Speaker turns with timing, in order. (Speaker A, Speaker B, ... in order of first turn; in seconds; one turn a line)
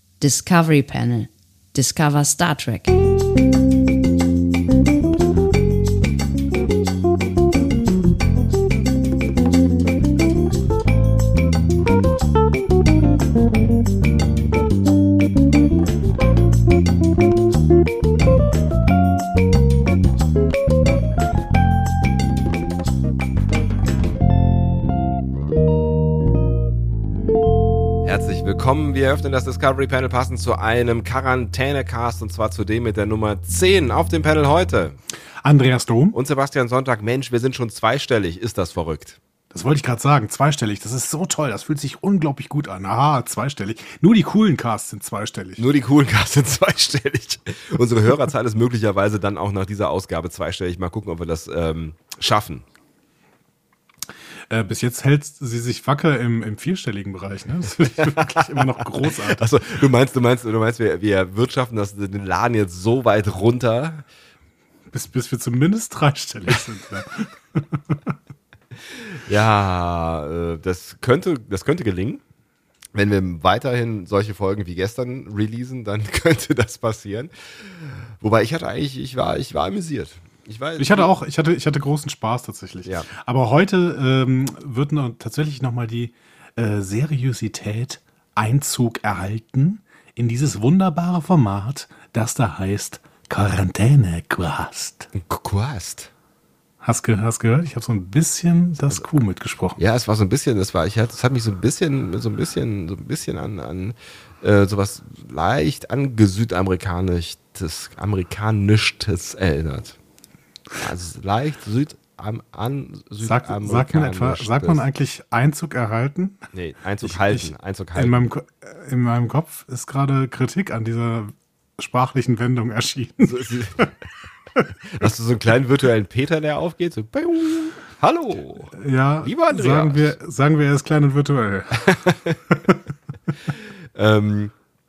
Speaker A: 0.2-2.9
Speaker B: 28.0-35.0
Speaker C: 35.4-36.2
Speaker B: 36.1-39.2
Speaker C: 39.5-45.6
Speaker B: 45.6-52.6
Speaker C: 54.5-59.5
Speaker B: 58.0-64.1
Speaker C: 64.9-68.1
Speaker B: 68.9-72.2
Speaker B: 72.9-81.1
Speaker C: 80.8-95.1
Speaker B: 95.2-96.1
Speaker C: 96.8-99.8
Speaker B: 99.8-110.0
Speaker B: 110.8-114.8
Speaker C: 113.2-116.5
Speaker B: 116.5-118.3
Speaker C: 117.0-123.9
Speaker B: 123.2-123.9
Speaker B: 124.9-130.2
Speaker C: 128.8-132.8
Speaker B: 131.9-132.4
Speaker B: 133.5-134.5